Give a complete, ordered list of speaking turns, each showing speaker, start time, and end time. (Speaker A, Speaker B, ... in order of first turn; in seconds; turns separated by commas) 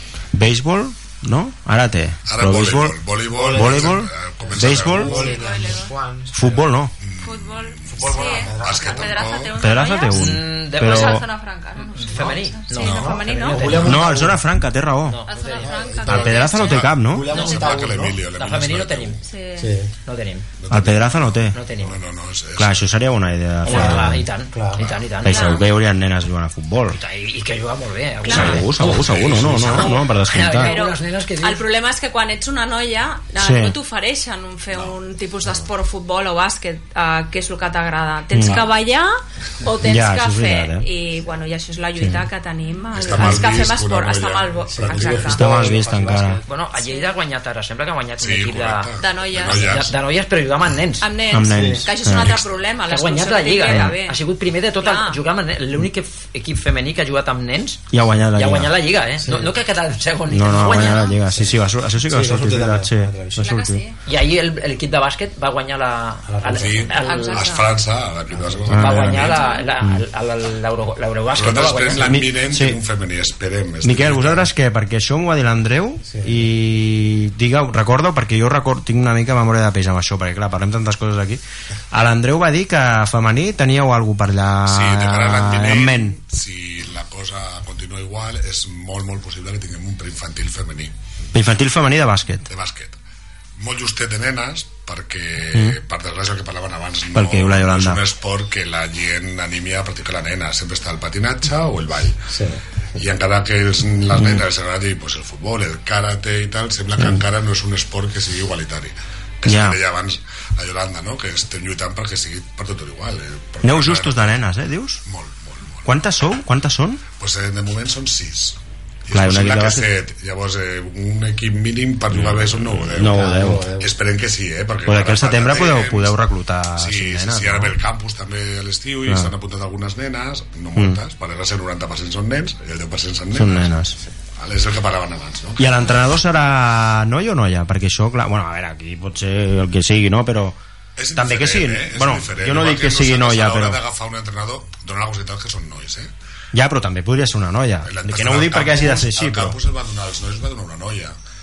Speaker A: 0.3-3.0, Speaker B: 2.3-5.7, Speaker C: 3.3-3.9, Speaker A: 3.5-5.3, Speaker C: 4.4-6.7, Speaker D: 5.2-6.0, Speaker A: 6.3-6.9, Speaker B: 7.0-9.6, Speaker D: 7.2-13.9, Speaker C: 7.9-9.2, Speaker A: 9.6-11.2, Speaker E: 10.1-11.2, Speaker E: 11.8-14.2, Speaker C: 12.8-14.4, Speaker A: 13.8-15.2, Speaker E: 15.1-15.7, Speaker D: 15.3-17.7, Speaker C: 15.4-18.2, Speaker A: 16.1-17.3, Speaker B: 16.5-19.2, Speaker E: 17.3-17.7, Speaker E: 18.3-19.2, Speaker D: 19.2-19.7, Speaker C: 19.6-19.9, Speaker E: 20.1-20.5, Speaker B: 20.6-22.8, Speaker A: 20.7-21.6, Speaker E: 21.5-22.0, Speaker A: 22.6-24.2, Speaker E: 23.6-25.6, Speaker C: 23.7-24.9, Speaker A: 25.2-27.0, Speaker D: 25.2-25.7, Speaker E: 26.9-31.6, Speaker D: 28.2-28.7, Speaker A: 28.3-30.8, Speaker B: 28.8-29.9, Speaker D: 29.8-45.4, Speaker A: 33.4-33.8, Speaker A: 38.3-38.7, Speaker A: 39.8-40.9, Speaker A: 42.0-42.2, Speaker B: 42.9-45.4, Speaker A: 43.1-43.5, Speaker C: 44.7-46.5, Speaker A: 45.3-46.4, Speaker E: 46.5-48.9, Speaker D: 46.8-47.1, Speaker B: 48.2-50.0, Speaker D: 49.0-49.9, Speaker E: 49.5-51.1, Speaker D: 51.0-54.2, Speaker A: 51.3-52.4, Speaker C: 51.5-51.9, Speaker E: 52.9-57.8, Speaker A: 53.7-53.9, Speaker D: 54.8-55.2, Speaker A: 57.9-58.8, Speaker E: 58.4-61.1, Speaker C: 59.2-59.5, Speaker A: 60.3-63.8, Speaker C: 61.3-63.5, Speaker D: 63.4-64.0, Speaker E: 64.1-67.5, Speaker C: 66.3-66.9, Speaker B: 66.5-69.4, Speaker D: 67.0-67.7, Speaker C: 68.3-68.7, Speaker A: 68.7-69.2, Speaker E: 68.7-72.2, Speaker D: 69.3-69.7, Speaker B: 71.3-74.5, Speaker A: 72.0-72.8, Speaker A: 73.8-86.2, Speaker C: 76.1-76.4, Speaker B: 84.7-90.9, Speaker A: 91.3-92.5, Speaker B: 92.5-93.0, Speaker B: 93.6-102.2, Speaker A: 95.5-95.8, Speaker A: 97.1-98.0, Speaker C: 102.3-102.6, Speaker B: 103.0-114.3, Speaker A: 104.1-104.5, Speaker A: 107.0-107.2, Speaker A: 109.5-109.8, Speaker A: 113.6-115.0, Speaker B: 115.0-115.9, Speaker A: 115.8-117.0, Speaker B: 117.2-126.2, Speaker A: 119.1-119.9, Speaker A: 122.1-123.7, Speaker C: 123.0-124.0, Speaker A: 124.9-127.8, Speaker B: 126.8-133.7, Speaker A: 129.1-129.3, Speaker A: 133.3-134.0, Speaker B: 134.4-136.0, Speaker A: 135.6-140.6, Speaker B: 141.0-146.1, Speaker A: 141.2-143.8, Speaker A: 146.5-149.6, Speaker B: 147.8-151.1